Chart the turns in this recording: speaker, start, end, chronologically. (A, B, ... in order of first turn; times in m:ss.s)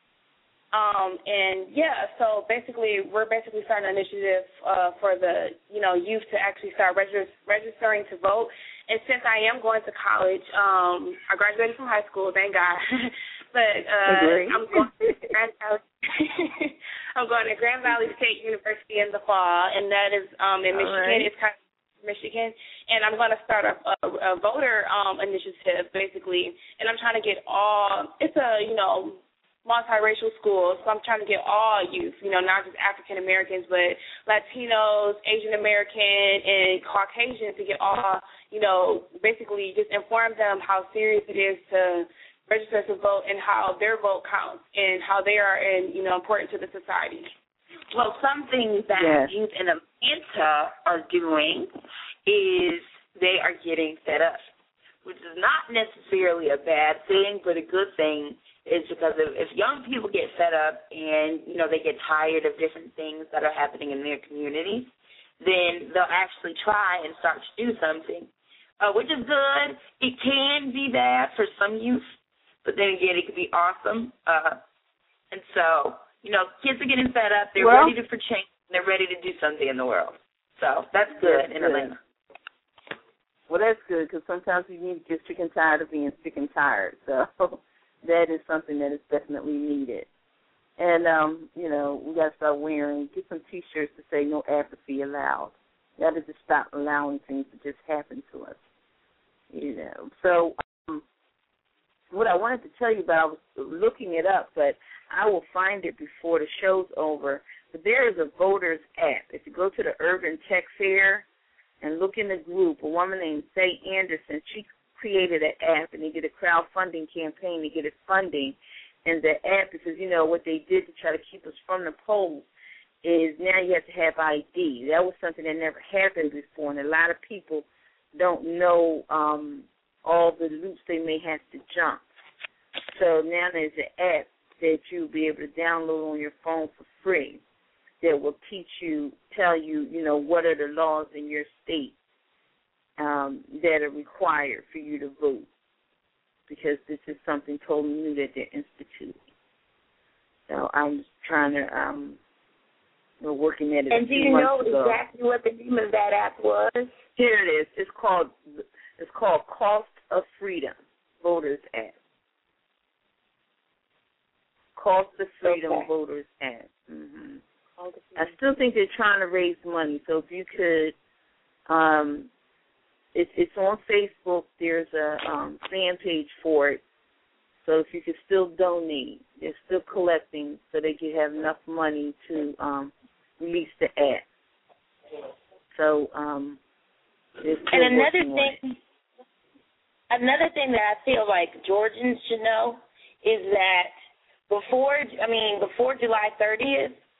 0:00.7-0:47.3 A
0:14.1-0:15.2 B
0:20.7-0:21.3 B
0:47.9-0:51.7 C
0:49.0-0:49.3 B
0:52.3-0:54.4 C
0:55.0-1:08.3 C
1:08.8-1:12.0 C
1:12.6-1:14.6 C
1:15.3-1:22.0 C
1:17.6-1:17.9 B
1:21.1-1:22.0 B
1:23.5-1:30.1 B
1:30.8-1:38.6 B
1:39.5-1:41.0 B
1:42.1-1:51.2 B
1:51.8-2:02.5 B
2:03.0-2:12.0 B
2:12.9-2:17.4 B
2:18.0-2:22.0 B
2:23.0-2:25.5 B
2:26.5-2:29.2 B
2:30.5-2:32.2 B
2:33.2-2:35.0 B
2:33.9-2:36.9 C
2:37.2-2:42.0 B
2:44.8-2:47.4 B
2:45.4-2:45.8 C
2:48.2-2:50.9 B
2:51.7-2:52.3 B
2:53.2-2:56.8 B
2:57.6-3:04.2 B
3:05.7-3:06.6 B
3:07.4-3:08.6 B
3:07.7-3:08.8 C
3:10.1-3:13.9 C
3:14.5-3:17.0 C